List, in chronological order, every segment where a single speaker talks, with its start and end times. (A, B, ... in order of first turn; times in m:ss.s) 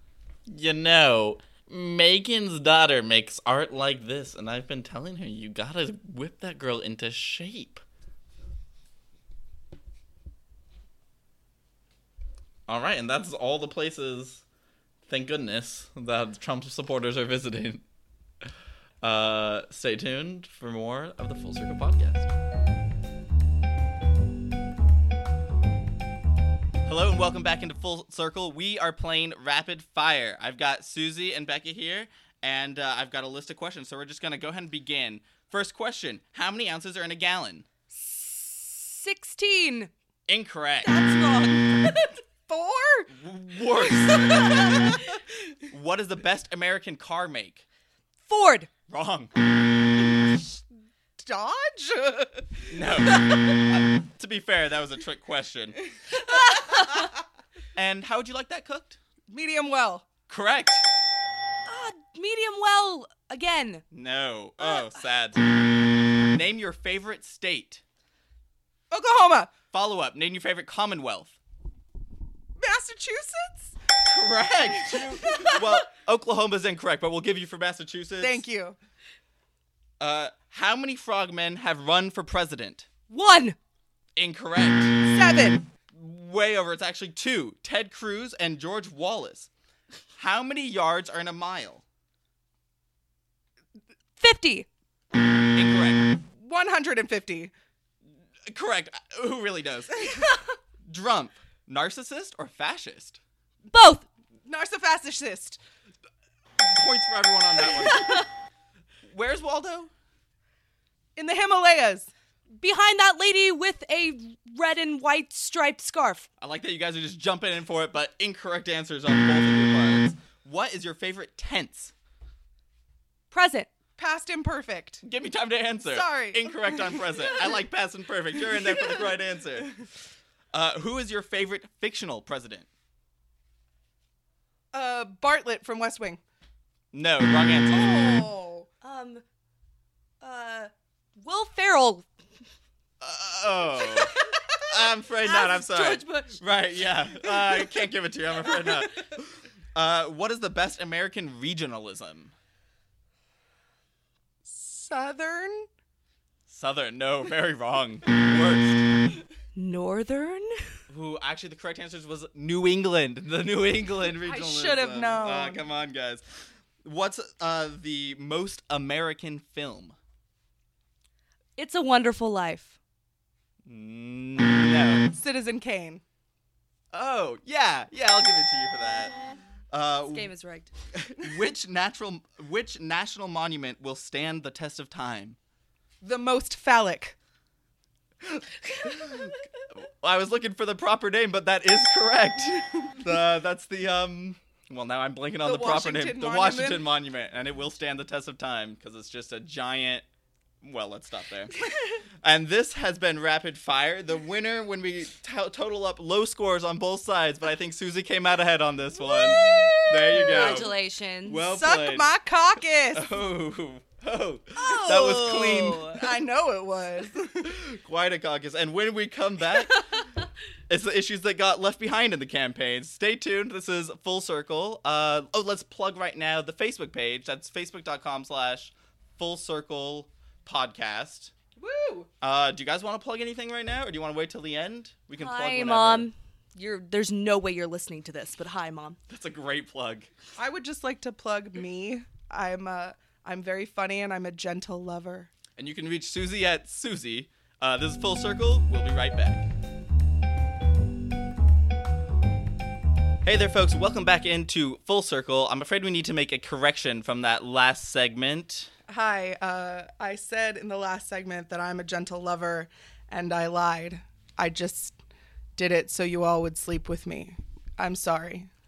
0:00.5-0:07.8 A
0:12.7-0:14.4 A
0:15.1-0:17.8 A
0:19.0-0:22.3 A
0:26.9-0:37.7 A
0:37.9-0:39.9 B
0:40.3-0:40.9 A
0:40.9-0:42.2 B
0:41.1-0:41.7 C
0:42.5-0:43.1 C
0:43.1-0:44.8 A
0:45.6-0:47.6 A
0:48.2-0:48.7 B
0:48.9-0:49.3 A
0:51.2-0:52.7 C
0:52.7-0:55.8 A
0:56.2-0:57.1 B
0:57.8-0:59.0 A
0:59.3-1:00.1 C
1:00.3-1:00.8 A
1:01.7-1:03.8 B
1:03.9-1:05.4 A
1:06.2-1:07.8 A
1:08.9-1:09.5 C
1:09.7-1:11.4 A
1:12.6-1:13.7 C
1:14.0-1:18.4 A
1:15.0-1:15.5 C
1:18.2-1:18.8 C
1:20.0-1:22.9 A
1:23.1-1:23.6 B
1:24.2-1:25.0 A
1:25.0-1:25.7 C
1:25.9-1:29.5 A
1:30.2-1:31.8 A
1:34.2-1:34.7 B
1:35.6-1:36.1 A
1:36.4-1:37.5 C
1:38.5-1:40.2 A
1:40.9-1:43.2 A
1:43.7-1:44.1 B
1:44.5-1:45.6 C
1:46.6-1:48.2 A
1:49.0-1:49.9 A
1:51.2-1:52.1 C
1:52.6-1:56.3 B
1:56.4-2:01.9 A
2:03.3-2:03.7 B
2:04.0-2:05.0 C
2:05.0-2:09.8 A
2:05.8-2:07.5 C
2:10.5-2:12.7 A
2:14.7-2:16.2 C
2:16.9-2:18.3 A
2:17.7-2:18.7 C
2:18.8-2:19.2 B
2:20.2-2:22.1 B
2:23.0-2:24.1 A
2:24.7-2:32.4 A
2:25.2-2:26.4 B
2:34.5-2:35.7 C
2:36.5-2:38.9 A
2:39.6-2:40.6 B
2:40.9-2:46.2 A
2:44.2-2:45.7 C
2:46.8-2:50.0 A
2:51.6-2:52.8 B
2:53.6-2:55.1 A
2:55.1-2:56.0 C
2:56.9-2:59.1 A
2:59.7-3:00.3 A
3:00.1-3:00.7 B
3:00.9-3:05.4 A
3:06.0-3:07.2 C
3:09.8-3:20.0 A
3:15.4-3:16.9 C
3:20.6-3:21.6 A
3:22.2-3:30.7 A
3:30.1-3:31.5 B
3:30.2-3:30.7 C
3:31.2-3:32.1 A
3:31.5-3:33.1 C
3:32.9-3:36.0 A
3:34.6-3:37.5 C
3:37.4-3:39.9 A
3:40.7-3:51.3 A
3:51.6-3:52.1 C
3:52.2-3:56.1 A
3:55.2-3:59.0 B
3:59.1-4:00.1 A
4:00.4-4:05.3 C
4:05.6-4:09.5 A
4:13.2-4:18.7 A
4:18.9-4:25.0 C
4:25.6-4:28.5 C